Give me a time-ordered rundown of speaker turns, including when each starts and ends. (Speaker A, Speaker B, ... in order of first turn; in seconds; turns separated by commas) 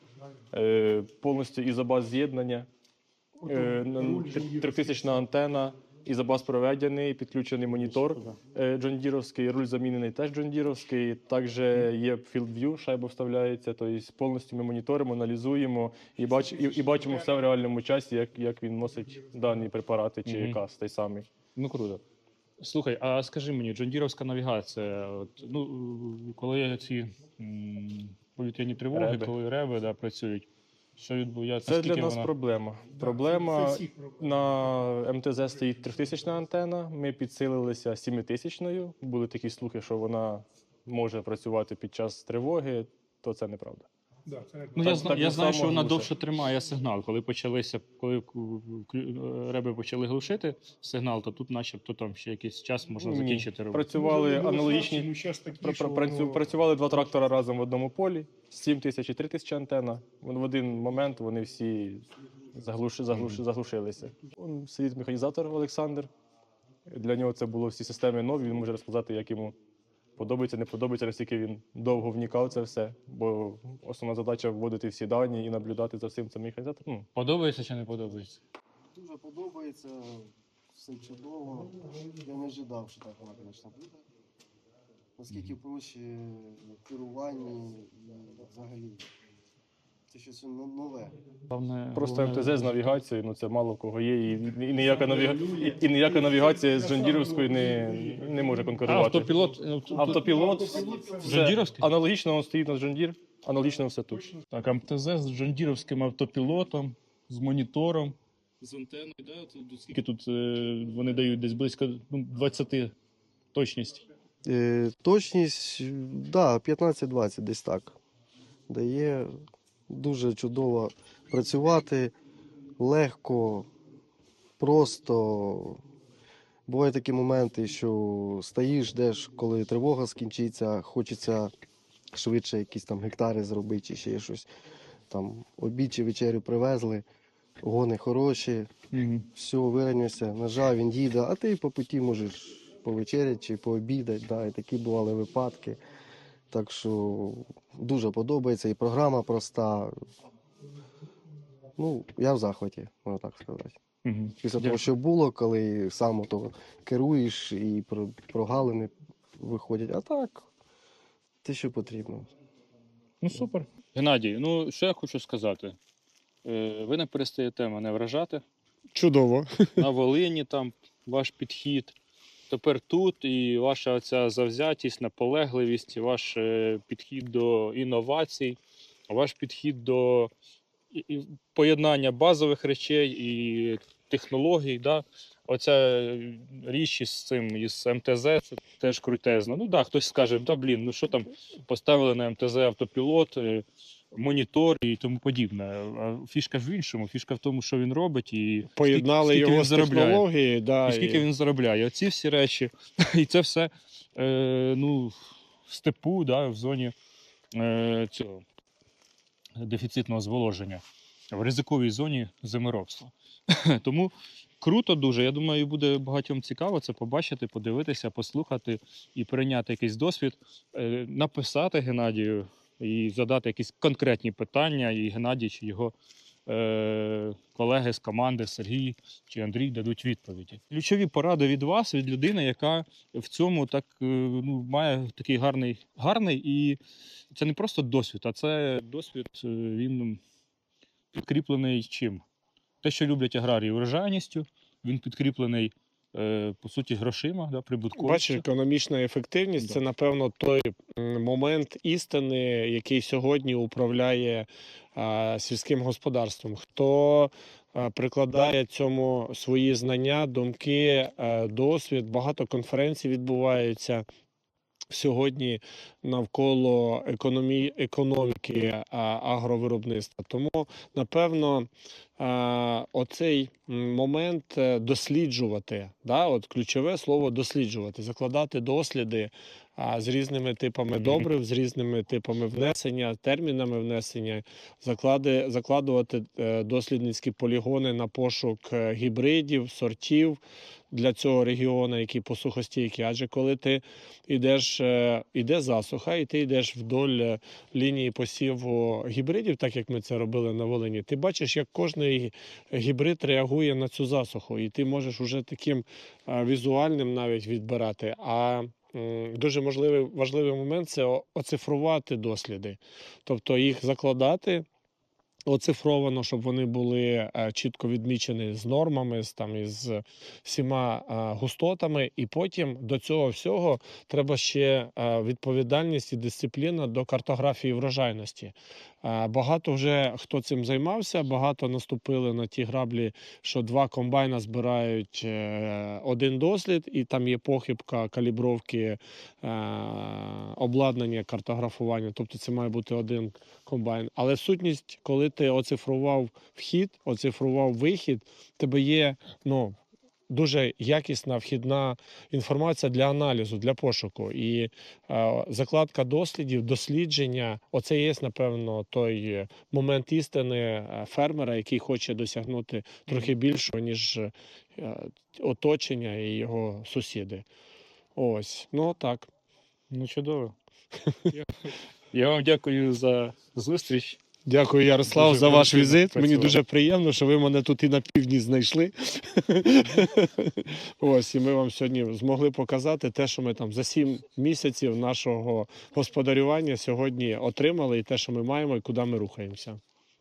Speaker A: 0.5-2.7, Speaker B: 3.4-5.2, Speaker A: 3.4-21.3, Speaker C: 7.9-8.4, Speaker C: 20.2-20.6, Speaker C: 21.5-22.0, Speaker C: 22.6-32.3, Speaker A: 28.9-29.3, Speaker A: 31.6-43.9, Speaker B: 33.0-34.3, Speaker B: 44.2-45.0, Speaker A: 44.8-46.1, Speaker C: 44.8-53.8, Speaker A: 53.0-66.1, Speaker B: 53.9-56.5, Speaker A: 66.9-69.5, Speaker A: 70.2-77.1, Speaker C: 77.1-78.4, Speaker D: 78.9-84.0, Speaker D: 85.2-89.0, Speaker D: 90.1-91.1, Speaker C: 91.5-92.8, Speaker A: 91.9-99.4, Speaker B: 94.9-101.2, Speaker C: 98.8-100.3, Speaker A: 99.9-104.2, Speaker C: 101.2-101.8, Speaker C: 104.5-112.9, Speaker C: 113.5-114.0, Speaker D: 114.5-118.0, Speaker D: 118.7-119.3, Speaker D: 119.9-122.1, Speaker D: 122.8-123.7, Speaker D: 124.6-125.8, Speaker D: 126.7-131.5, Speaker D: 132.1-134.5, Speaker D: 135.1-137.0, Speaker D: 137.6-138.7, Speaker C: 138.9-139.2, Speaker D: 139.3-145.8, Speaker D: 146.5-149.9, Speaker D: 151.8-153.7, Speaker C: 154.0-154.8, Speaker D: 154.4-160.4, Speaker D: 161.4-162.3, Speaker C: 163.2-165.8, Speaker C: 166.4-168.4, Speaker E: 168.9-169.8, Speaker C: 169.8-171.9, Speaker C: 172.5-180.3, Speaker C: 180.9-200.2, Speaker E: 198.7-201.2, Speaker C: 200.9-206.9, Speaker C: 207.5-208.4, Speaker C: 209.6-225.9, Speaker C: 226.4-236.8, Speaker C: 237.3-240.2, Speaker C: 241.1-242.2, Speaker C: 242.8-248.4, Speaker E: 247.9-264.0, Speaker E: 264.9-290.4, Speaker C: 281.0-281.2, Speaker E: 290.9-314.6, Speaker E: 315.5-349.8, Speaker E: 350.3-367.4, Speaker E: 368.1-369.3, Speaker C: 369.9-370.5, Speaker C: 371.3-374.2, Speaker E: 374.4-389.8, Speaker C: 375.1-376.6